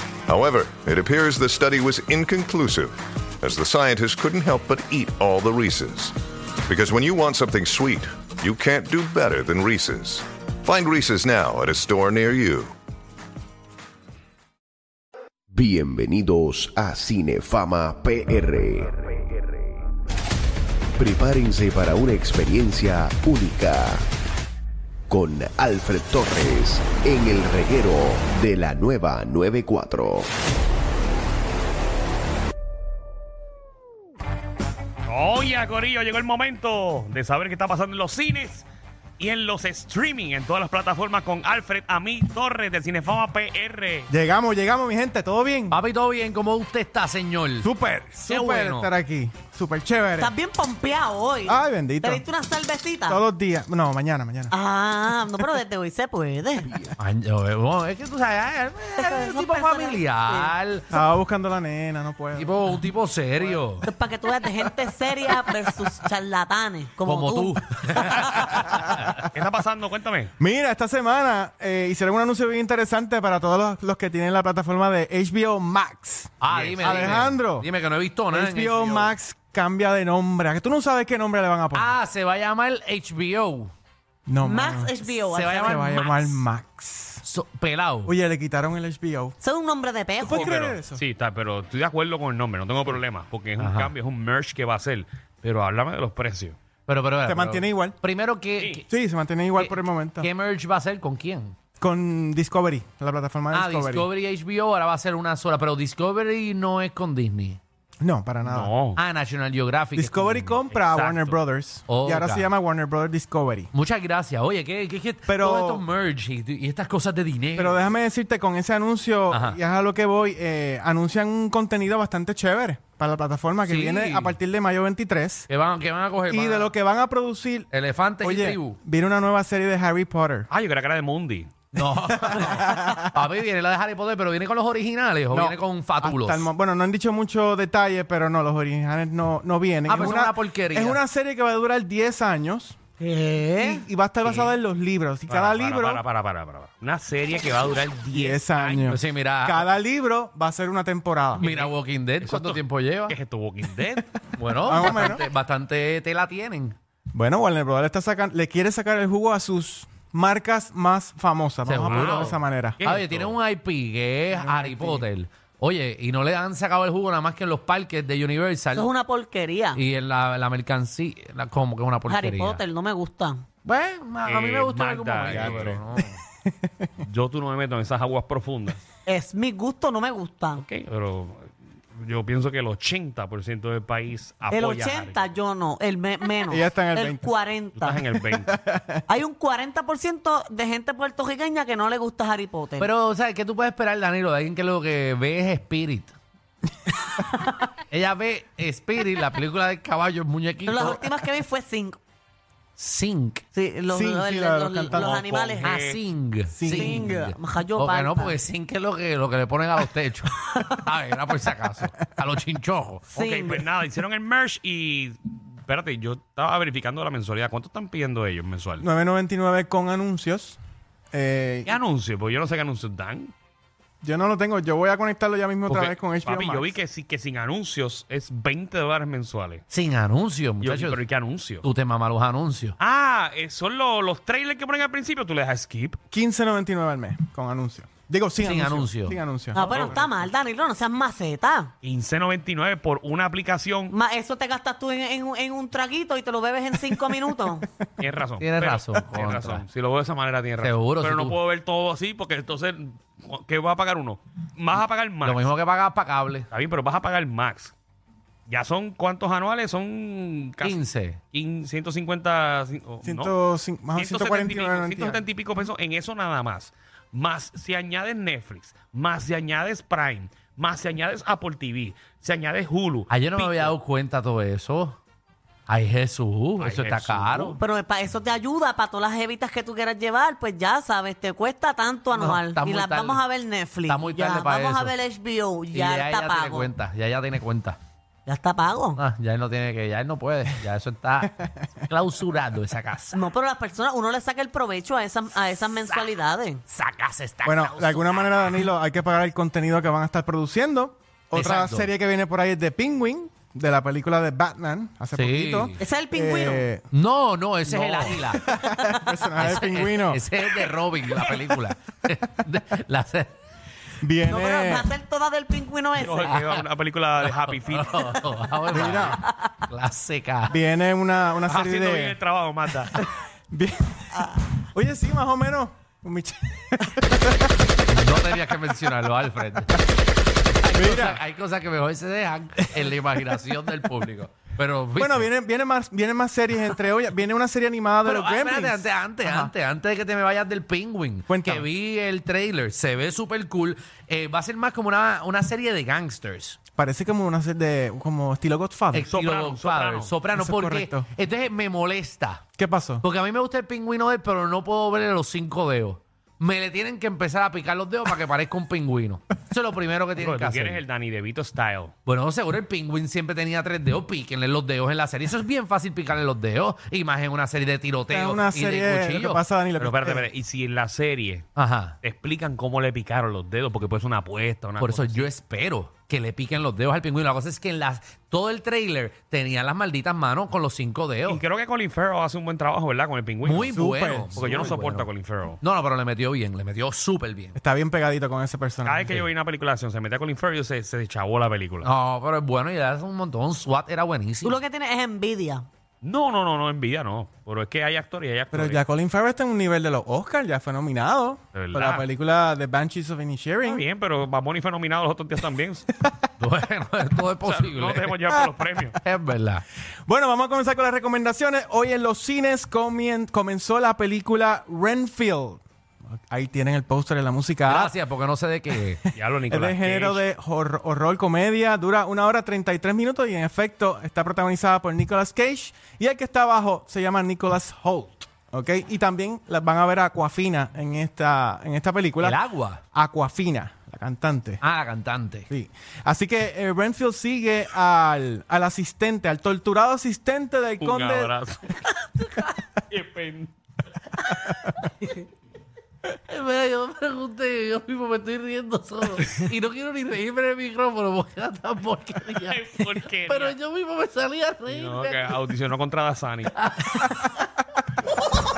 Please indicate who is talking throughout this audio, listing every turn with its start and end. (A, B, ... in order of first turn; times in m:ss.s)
0:00.3-0:06.1 A
0:06.7-0:12.7 A
0:15.5-0:19.1 B
0:21.0-0:24.1 B
0:25.1-0:30.3 B
0:35.1-0:38.7 C
0:39.2-0:44.1 C
0:44.1-0:45.8 D
0:45.7-0:47.7 E
0:47.6-0:50.3 D
0:48.2-0:48.9 E
0:50.2-0:53.2 F
0:51.4-0:52.2 D
0:53.1-0:54.5 D
0:54.5-0:56.7 F
0:57.0-1:00.9 E
0:59.0-1:00.5 F
1:00.9-1:02.6 D
1:02.4-1:03.9 E
1:03.8-1:08.5 F
1:07.0-1:09.2 E
1:09.3-1:10.3 C
1:10.4-1:17.7 D
1:16.4-1:19.1 E
1:16.5-1:17.3 C
1:18.3-1:22.0 D
1:21.7-1:23.7 E
1:24.3-1:25.0 D
1:24.4-1:26.1 F
1:25.3-1:26.3 E
1:25.6-1:27.2 D
1:27.2-1:28.1 E
1:28.1-1:29.4 D
1:29.4-1:30.5 F
1:30.2-1:31.0 D
1:30.4-1:36.6 C
1:33.6-1:33.9 E
1:36.9-1:38.8 E
1:37.2-1:38.0 D
1:38.9-1:40.3 D
1:39.6-1:41.6 E
1:41.8-1:44.1 D
1:43.5-1:47.6 E
1:48.0-1:48.7 D
1:48.4-1:49.0 C
1:49.0-1:50.6 E
1:50.0-1:53.7 D
1:50.7-1:51.4 C
1:51.9-1:52.5 E
1:53.7-1:57.9 E
1:55.3-1:55.9 D
1:57.6-2:05.5 D
1:59.3-1:59.6 E
2:03.6-2:04.4 E
2:05.5-2:06.7 E
2:06.3-2:10.5 D
2:07.7-2:08.8 E
2:10.5-2:11.5 C
2:11.7-2:16.5 E
2:12.1-2:13.1 D
2:15.3-2:22.8 D
2:19.9-2:21.0 E
2:23.0-2:23.8 F
2:23.6-2:26.0 D
2:24.2-2:24.5 E
2:25.3-2:28.9 C
2:28.1-2:31.5 D
2:28.8-2:29.7 E
2:31.4-2:33.2 E
2:31.4-2:34.1 C
2:34.4-2:36.8 E
2:34.6-2:35.2 D
2:37.1-2:42.8 D
2:41.6-2:48.9 E
2:41.8-2:43.4 C
2:44.3-2:45.1 D
2:48.7-2:49.8 F
2:49.8-2:52.6 E
2:52.1-2:53.4 F
2:53.6-2:56.2 E
2:54.2-2:55.8 C
2:56.5-2:56.9 D
2:57.0-2:58.8 C
2:59.1-3:00.6 F
3:00.6-3:05.3 C
3:04.5-3:08.0 F
3:06.5-3:07.3 D
3:07.8-3:08.6 C
3:08.3-3:09.0 D
3:09.1-3:12.9 F
3:12.8-3:16.2 E
3:17.9-3:21.0 E
3:20.7-3:22.0 F
3:22.8-3:23.4 E
3:23.5-3:25.8 F
3:23.9-3:25.2 D
3:24.9-3:26.0 C
3:25.6-3:33.0 E
3:26.5-3:27.1 D
3:26.7-3:28.4 F
3:33.1-3:38.9 C
3:33.2-3:33.7 F
3:38.8-3:40.6 D
3:41.1-3:41.7 D
3:41.6-3:43.3 C
3:44.0-3:46.7 D
3:45.7-3:49.6 C
3:49.7-3:51.0 E
3:50.6-3:51.7 C
3:51.6-3:52.8 E
3:52.8-3:56.0 C
3:56.1-4:00.2 D
3:58.4-3:59.2 E
3:59.6-4:01.7 F
3:59.7-4:00.1 C
4:01.8-4:03.9 C
4:03.9-4:07.7 F
4:08.0-4:15.5 C
4:08.4-4:09.6 E
4:10.6-4:11.4 E
4:15.2-4:16.5 E
4:16.5-4:17.7 C
4:18.5-4:23.3 C
4:20.6-4:21.2 E
4:23.0-4:25.2 D
4:24.0-4:33.7 C
4:33.1-4:35.0 E
4:35.7-4:37.6 E
4:36.6-4:37.6 C
4:37.6-4:46.7 F
4:42.2-4:43.2 E
4:43.9-4:45.0 E
4:45.7-4:47.8 E
4:48.3-4:49.0 F
4:49.0-4:53.2 E
4:51.2-4:51.7 D
4:53.1-4:56.6 F
4:55.6-4:56.2 E
4:56.7-4:58.6 E
4:57.4-5:06.8 D
5:01.3-5:01.9 E
5:05.1-5:05.8 E
5:05.8-5:06.7 F
5:06.9-5:08.6 E
5:07.7-5:10.2 D
5:09.4-5:13.3 E
5:14.0-5:14.9 D
5:14.3-5:16.4 F
5:16.0-5:18.2 C
5:16.3-5:16.6 E
5:17.3-5:20.6 E
5:18.7-5:19.2 D
5:19.0-5:19.5 F
5:20.5-5:22.2 D
5:21.5-5:23.0 C
5:23.5-5:27.7 D
5:24.2-5:24.5 F
5:27.9-5:29.8 E
5:30.6-5:35.3 E
5:30.7-5:31.2 D
5:32.7-5:33.4 D
5:35.0-5:39.5 D
5:38.0-5:46.6 E
5:41.3-5:41.7 D
5:46.8-5:49.1 D
5:48.9-5:52.4 E
5:49.1-5:50.1 C
5:50.3-5:51.1 D
5:52.6-5:53.0 D
5:53.0-6:00.8 E
6:00.2-6:01.9 C
6:02.1-6:09.4 E
6:08.1-6:10.3 D
6:09.8-6:11.5 C
6:11.6-6:12.0 E
6:12.0-6:15.3 C
6:14.8-6:21.4 E
6:21.3-6:23.8 C
6:23.4-6:25.1 E
6:23.7-6:24.7 D
6:24.4-6:25.6 C
6:25.6-6:27.6 E
6:27.6-6:29.2 D
6:28.8-6:31.9 C
6:31.8-6:34.6 E
6:34.4-6:35.6 F
6:36.0-6:38.8 C
6:38.5-6:43.8 D
6:41.6-6:42.0 C
6:43.6-6:45.9 C
6:46.0-6:46.3 D
6:46.4-6:48.1 E
6:47.4-6:49.0 C
6:49.0-6:49.6 E
6:50.1-6:55.6 D
6:56.3-6:57.9 D
6:57.7-6:59.0 E
6:58.8-7:12.4 D
6:59.1-7:00.2 C
7:12.2-7:12.8 E
7:12.9-7:14.6 D
7:14.6-7:15.5 E
7:15.5-7:21.3 D
7:20.8-7:21.8 C
7:22.2-7:22.5 E
7:22.9-7:23.5 C
7:26.3-7:35.4 E
7:32.3-7:33.6 C
7:34.7-7:36.6 C
7:36.6-7:37.4 E